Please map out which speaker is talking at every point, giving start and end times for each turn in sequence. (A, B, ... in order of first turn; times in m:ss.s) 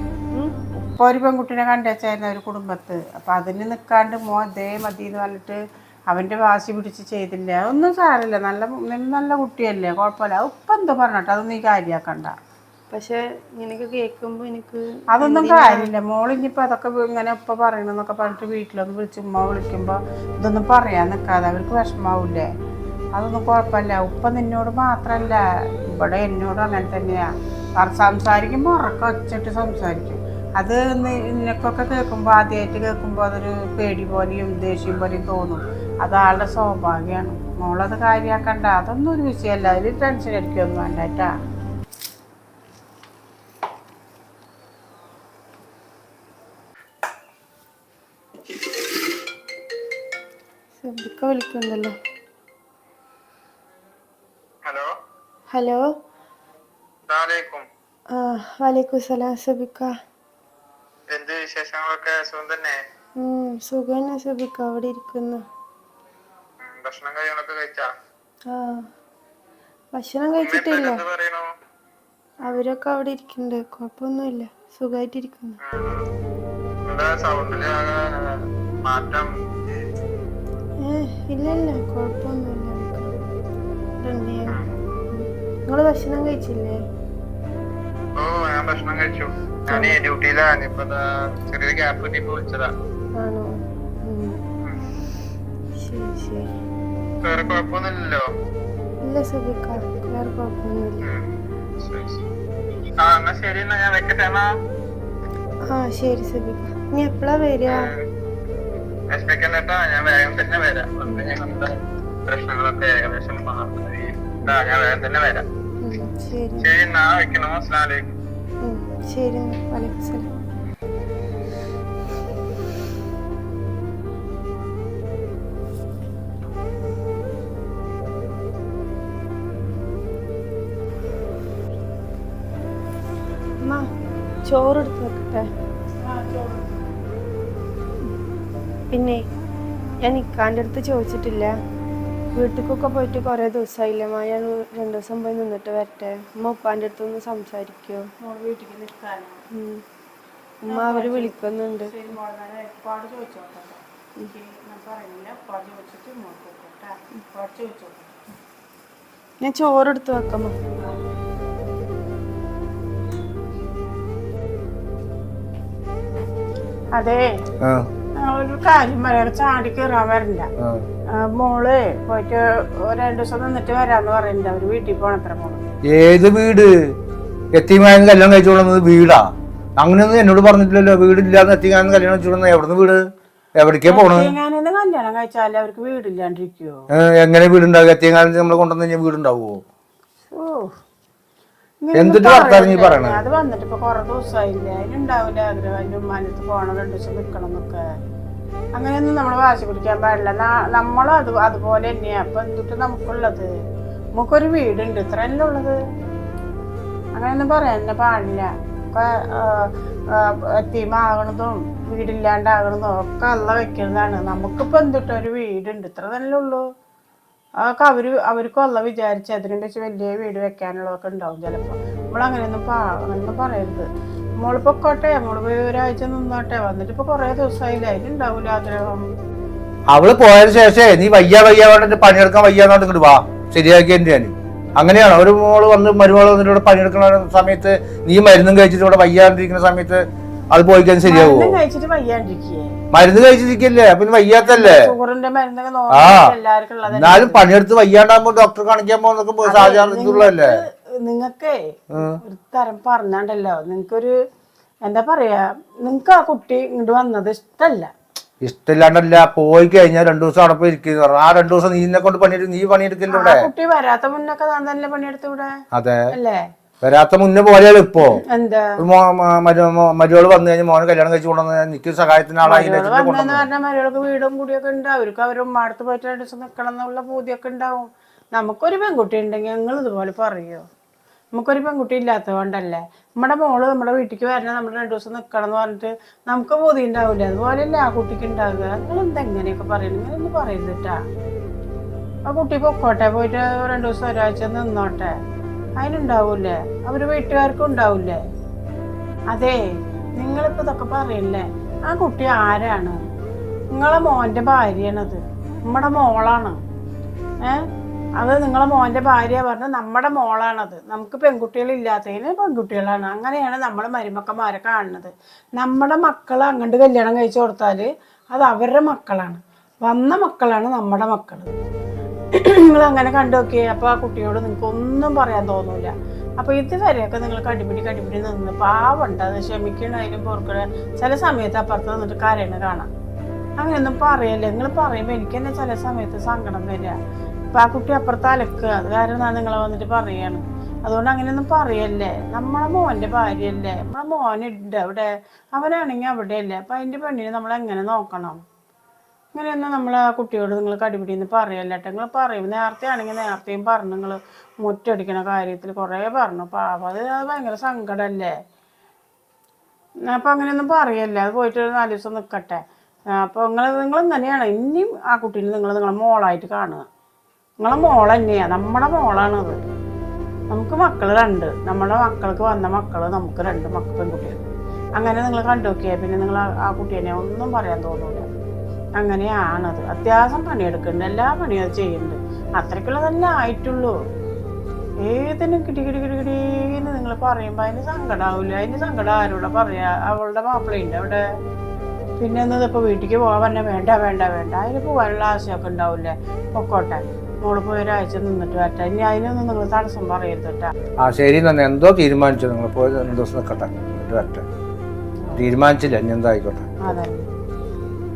0:00.8-0:12.3 A
0:12.9-0:15.9 B
0:15.1-0:22.5 A
0:23.2-0:27.2 A
0:27.8-0:41.3 A
0:50.8-0:52.0 B
0:55.5-0:55.8 B
0:57.0-0:57.6 C
0:58.1-0:59.9 B
1:01.1-1:02.8 C
1:03.2-1:05.4 B
1:06.6-1:07.9 C
1:08.5-1:08.8 B
1:09.9-1:11.0 B
1:10.4-1:11.5 C
1:12.4-1:15.6 B
1:15.6-1:16.0 C
1:16.8-1:18.0 C
1:18.8-1:19.3 C
1:20.8-1:23.1 B
1:24.0-1:24.6 B
1:25.1-1:26.8 B
1:28.2-1:32.7 C
1:33.2-1:33.5 B
1:34.0-1:34.3 B
1:35.8-1:36.5 B
1:37.2-1:38.2 C
1:39.0-1:41.0 B
1:41.8-1:42.2 C
1:43.0-1:44.5 C
1:45.7-1:47.9 B
1:49.1-1:51.7 C
1:52.3-1:55.4 C
1:55.8-1:56.7 B
1:56.6-1:58.0 C
1:58.6-2:00.3 B
2:14.5-2:15.5 B
2:16.0-2:16.8 A
2:18.9-2:19.2 B
2:20.0-2:21.5 B
2:22.3-2:28.0 B
2:28.2-2:29.4 A
2:29.5-2:29.8 B
2:30.6-2:31.9 B
2:30.7-2:38.2 A
2:39.4-2:40.6 B
2:46.9-2:47.3 A
2:48.2-2:50.5 A
2:51.1-2:55.6 A
2:55.9-2:56.7 D
2:57.5-3:03.0 D
3:03.6-3:04.3 D
3:03.9-3:06.8 A
3:06.9-3:09.6 D
3:10.3-3:10.7 A
3:11.8-3:17.8 A
3:11.9-3:13.2 D
3:18.8-3:23.5 A
3:24.2-3:25.8 A
3:27.2-3:36.6 A
3:37.6-3:43.9 A
3:44.4-3:49.0 A
3:49.9-4:01.6 D
4:01.0-4:02.7 A
4:02.9-4:04.9 D
4:04.4-4:07.4 A
4:05.9-4:06.3 D
4:06.9-4:10.6 D
4:09.5-4:14.1 A
4:11.9-4:12.2 D
4:14.8-4:17.9 A
4:18.4-4:23.5 D
4:23.1-4:25.5 A
4:25.7-4:26.1 D
4:26.1-4:26.4 A
4:26.8-4:28.2 D
4:28.1-4:28.7 A
4:28.8-4:33.5 D
4:32.4-4:40.6 A
4:41.4-4:51.0 A
4:52.3-4:55.1 A
4:55.8-4:58.2 A
4:59.3-4:59.6 A
5:00.2-5:03.0 A
5:03.7-5:06.6 A
5:08.2-5:21.5 A
5:22.3-5:32.9 A
5:33.6-5:37.0 A
5:37.5-5:48.4 A
5:49.3-5:58.3 A
6:00.1-6:02.6 A
6:03.2-6:06.8 A
6:07.6-6:09.6 A
6:10.5-6:14.4 A
6:15.0-6:18.2 A
6:19.0-6:23.9 A
6:25.0-6:31.2 A
6:32.2-6:40.7 A
6:41.0-6:44.4 D
6:45.3-6:47.0 D
6:46.9-6:47.2 A